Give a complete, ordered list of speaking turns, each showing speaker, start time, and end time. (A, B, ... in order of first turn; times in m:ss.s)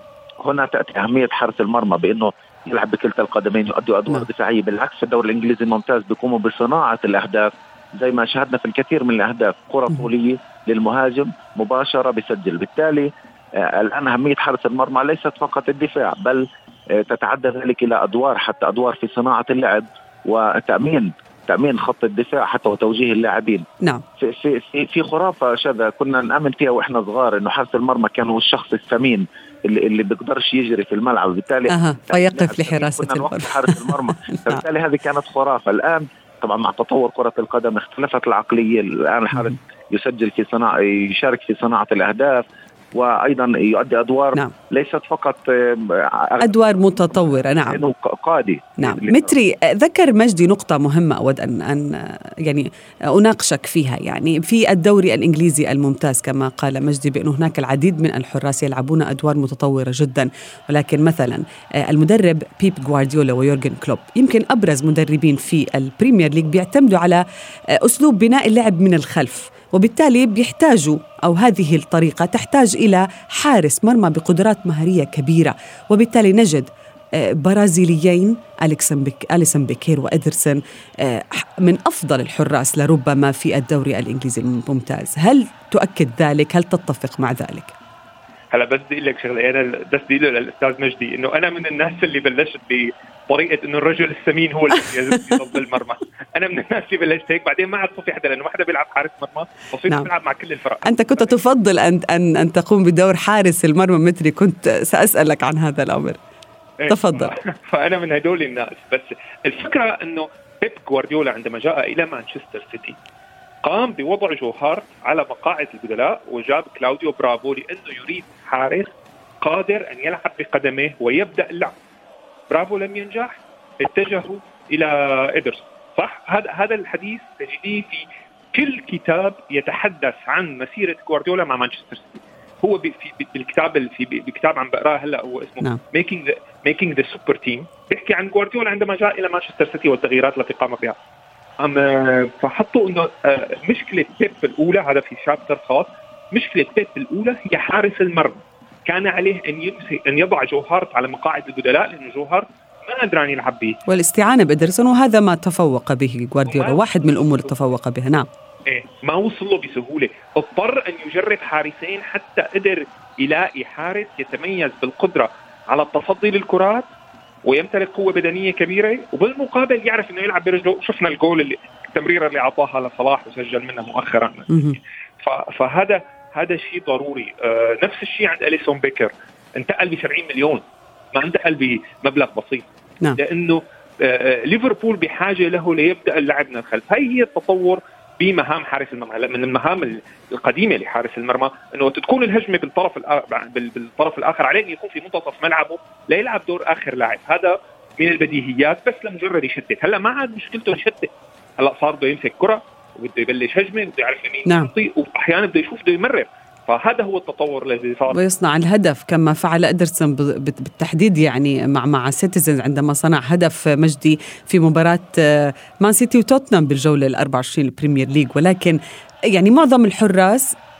0:00.4-0:23.6 A
0:24.2-0:42.4 A
0:31.7-0:34.6 B
0:42.9-0:46.5 A
0:46.4-0:47.8 B
0:47.6-0:49.3 A
0:48.8-1:07.2 B
1:07.8-1:27.7 B
1:28.5-1:41.3 C
1:40.8-1:46.2 B
1:46.8-1:53.0 C
1:46.9-1:47.3 B
1:53.6-2:01.8 C
2:02.5-2:21.0 C
2:21.6-2:33.8 C
2:33.9-2:38.3 B
2:36.5-2:36.8 C
2:38.6-2:46.9 C
2:47.4-3:00.6 C
2:54.5-2:54.8 B
3:01.1-3:28.2 C
3:24.5-3:24.7 B
3:28.1-3:38.8 B
3:39.3-3:40.6 B